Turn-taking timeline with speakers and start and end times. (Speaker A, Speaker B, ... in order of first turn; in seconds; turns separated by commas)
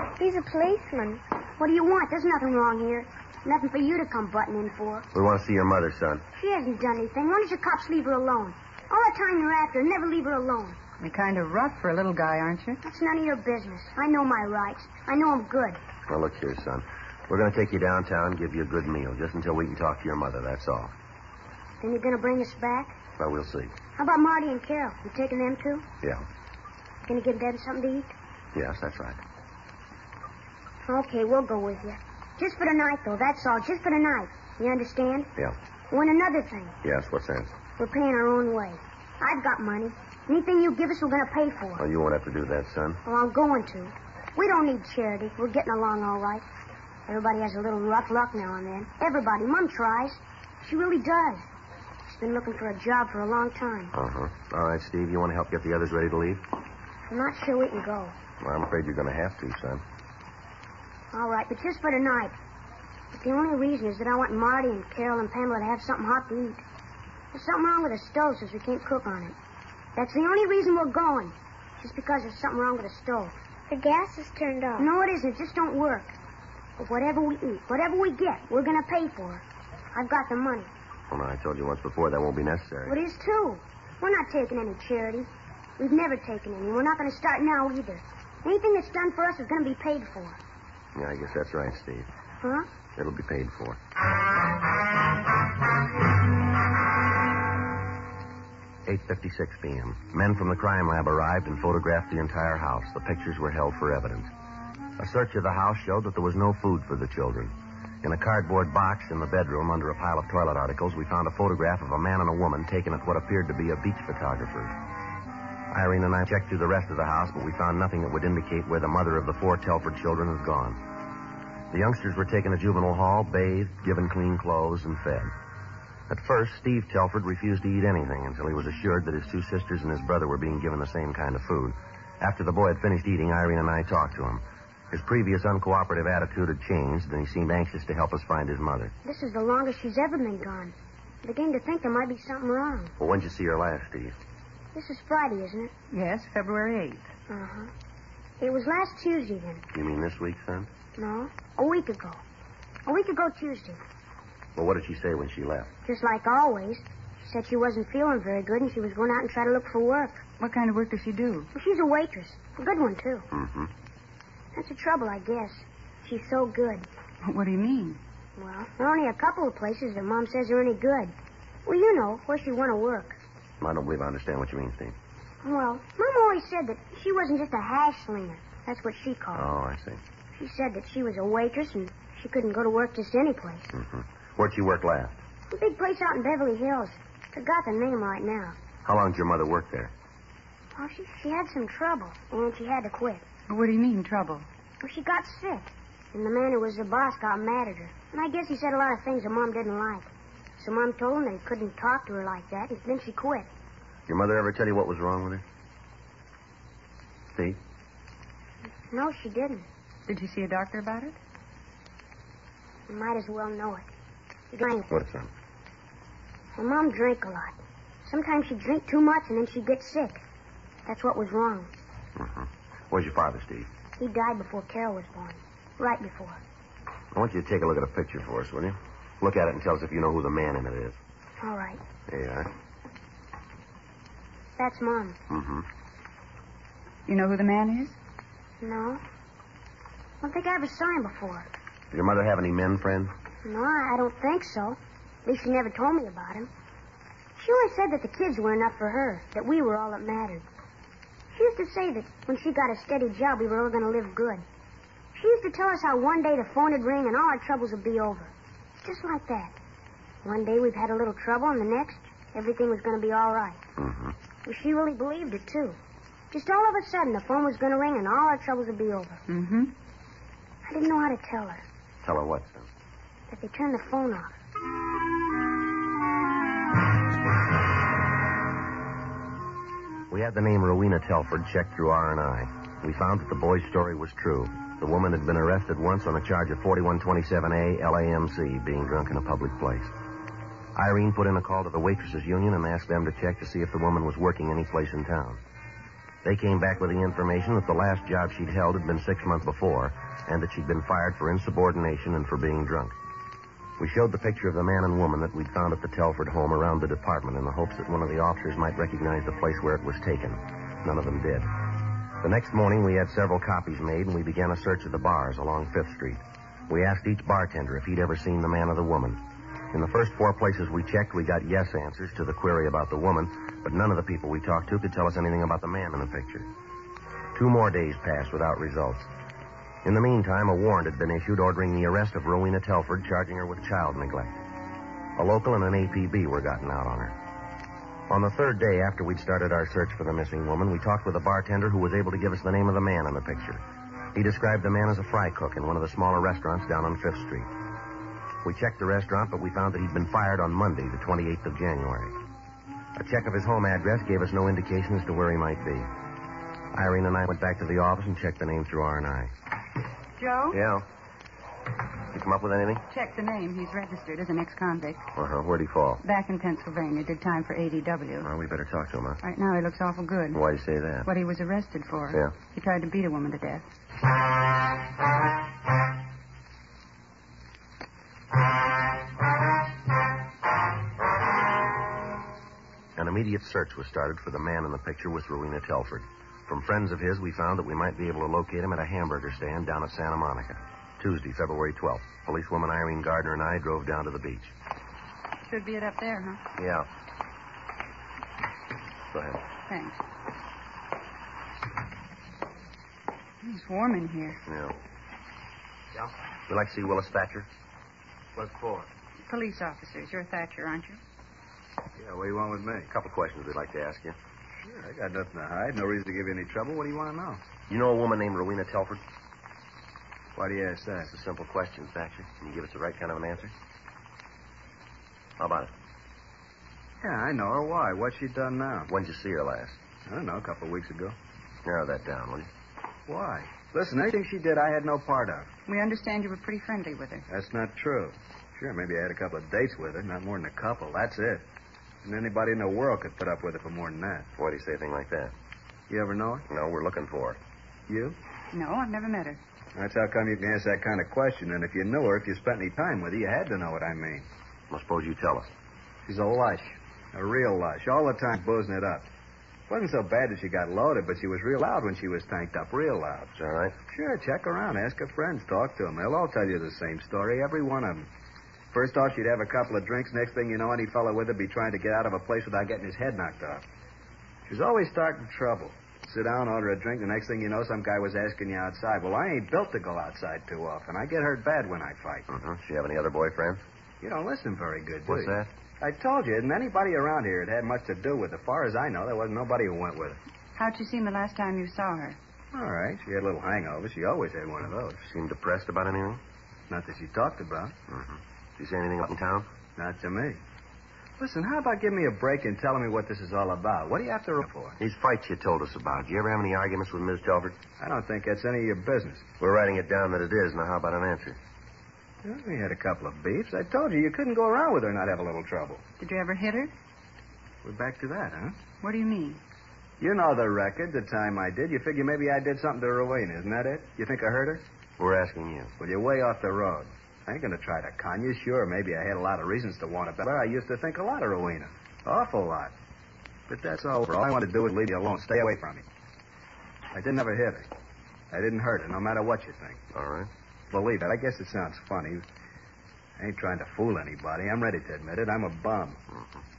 Speaker A: 0.2-1.2, Speaker B: 1.6-5.1, Speaker C: 5.1-6.2, Speaker B: 6.3-10.8, Speaker D: 11.0-12.8, Speaker B: 12.8-15.8, Speaker C: 16.1-20.9, Speaker B: 21.8-23.0, Speaker C: 23.2-23.7, Speaker B: 23.9-25.9, Speaker B: 27.1-28.1, Speaker C: 28.5-29.2, Speaker B: 30.8-35.3, Speaker B: 35.9-36.8, Speaker C: 36.8-37.5, Speaker B: 37.8-41.8, Speaker C: 41.8-43.0, Speaker B: 43.0-46.4, Speaker B: 47.1-51.5, Speaker B: 52.1-53.9, Speaker C: 53.9-56.4, Speaker B: 57.1-58.1, Speaker C: 58.4-59.8, Speaker B: 61.1-62.3, Speaker B: 63.1-66.6, Speaker B: 67.3-69.3, Speaker B: 70.0-73.3, Speaker A: 73.7-74.9, Speaker B: 74.8-76.1, Speaker B: 76.8-80.7, Speaker C: 81.1-83.0, Speaker B: 82.8-85.3, Speaker B: 85.8-90.4, Speaker C: 90.9-92.1, Speaker B: 92.4-92.7, Speaker C: 92.9-93.8, Speaker C: 98.8-104.3, Speaker C: 105.0-114.7, Speaker C: 115.7-120.8, Speaker C: 121.7-125.3, Speaker C: 126.1-138.9, Speaker B: 139.0-142.9, Speaker C: 143.0-144.2, Speaker B: 144.7-145.7, Speaker D: 145.9-147.1, Speaker B: 147.3-147.7, Speaker B: 148.4-149.6, Speaker C: 149.7-150.7, Speaker B: 151.0-152.2, Speaker B: 152.8-153.8, Speaker C: 154.6-155.7, Speaker B: 155.8-160.2, Speaker D: 160.4-161.5, Speaker B: 161.5-163.2, Speaker C: 163.3-163.7, Speaker B: 164.5-166.9, Speaker D: 167.2-168.0, Speaker B: 168.4-171.1, Speaker B: 171.7-173.2, Speaker C: 173.6-174.9, Speaker B: 175.4-179.4, Speaker C: 179.3-180.0, Speaker B: 180.3-183.7, Speaker C: 183.7-185.2, Speaker B: 185.5-188.6, Speaker C: 188.8-189.9, Speaker B: 190.8-193.2, Speaker D: 193.5-194.5, Speaker B: 194.8-203.5, Speaker C: 204.1-205.4, Speaker C: 207.3-207.6, Speaker B: 208.9-209.7, Speaker D: 210.1-211.2, Speaker B: 212.9-213.9, Speaker B: 214.5-214.9, Speaker C: 214.9-215.3, Speaker B: 216.6-220.2, Speaker B: 220.8-221.7, Speaker C: 222.2-223.7, Speaker B: 224.0-226.4, Speaker C: 227.1-231.0, Speaker B: 231.4-231.8, Speaker C: 232.1-232.5, Speaker B: 234.6-235.2, Speaker C: 235.3-235.7, Speaker D: 237.1-238.0, Speaker B: 238.6-239.0, Speaker B: 240.2-241.5, Speaker C: 241.9-243.1, Speaker B: 243.4-246.5, Speaker B: 247.4-250.4, Speaker B: 251.3-254.4, Speaker B: 255.1-258.3, Speaker B: 258.8-259.6, Speaker B: 260.2-263.6, Speaker C: 263.8-264.1, Speaker B: 264.4-265.8, Speaker B: 266.3-269.2, Speaker D: 269.3-269.7, Speaker B: 270.6-271.6, Speaker C: 272.0-272.7, Speaker B: 273.3-274.3, Speaker C: 280.1-289.9, Speaker C: 290.7-295.4, Speaker C: 296.2-302.9, Speaker C: 303.8-311.5, Speaker C: 312.2-319.2, Speaker C: 319.7-326.5, Speaker C: 327.3-329.1, Speaker C: 329.8-334.4, Speaker C: 335.1-337.1, Speaker C: 338.1-347.5, Speaker C: 348.4-352.1, Speaker C: 352.9-355.9, Speaker C: 356.7-359.3, Speaker D: 360.1-360.6, Speaker C: 360.5-360.9, Speaker C: 362.1-362.8, Speaker D: 362.9-365.1, Speaker C: 365.1-366.0, Speaker D: 366.0-368.3, Speaker C: 368.2-369.2, Speaker D: 369.2-370.4, Speaker C: 370.3-371.1, Speaker D: 371.0-373.7, Speaker C: 383.0-394.5, Speaker D: 395.4-396.4, Speaker C: 396.6-396.9, Speaker C: 399.1-399.4, Speaker D: 399.7-400.0, Speaker D: 403.4-404.4, Speaker C: 404.4-404.8, Speaker C: 406.5-407.5, Speaker E: 408.4-408.9, Speaker D: 409.3-411.0, Speaker E: 412.0-412.9, Speaker C: 412.9-414.1, Speaker E: 414.6-417.4, Speaker C: 417.7-419.0, Speaker E: 420.4-421.1, Speaker C: 421.1-423.5, Speaker C: 425.4-425.7, Speaker E: 427.0-428.9, Speaker C: 428.9-429.8, Speaker E: 430.1-431.1, Speaker C: 431.6-432.5, Speaker E: 433.1-435.5, Speaker D: 435.7-437.2, Speaker E: 437.3-441.4, Speaker E: 442.0-444.3, Speaker C: 444.4-445.3, Speaker E: 445.9-446.4, Speaker C: 446.5-447.4, Speaker E: 447.9-448.2, Speaker D: 448.5-449.4, Speaker E: 449.7-454.2, Speaker C: 454.7-455.5, Speaker E: 456.1-459.1, Speaker E: 459.7-463.3, Speaker C: 463.3-463.8, Speaker E: 463.9-468.1, Speaker E: 468.7-473.6, Speaker E: 474.5-482.3, Speaker C: 482.3-483.6, Speaker E: 484.0-490.2, Speaker C: 485.1-485.5, Speaker D: 490.6-492.2, Speaker E: 492.5-495.0, Speaker C: 495.0-496.2, Speaker E: 496.7-497.7, Speaker C: 497.9-499.5, Speaker E: 499.8-500.4, Speaker E: 501.2-504.8, Speaker C: 504.8-507.6, Speaker E: 507.8-509.3, Speaker C: 509.4-511.4, Speaker E: 512.2-515.8, Speaker D: 516.0-516.7, Speaker E: 517.6-518.6, Speaker D: 518.8-519.4, Speaker E: 520.0-524.6, Speaker C: 525.0-525.7, Speaker E: 525.8-532.7, Speaker E: 533.5-535.8, Speaker E: 536.9-537.7, Speaker E: 538.3-539.8, Speaker C: 539.9-540.3, Speaker E: 540.7-542.2, Speaker E: 543.2-546.0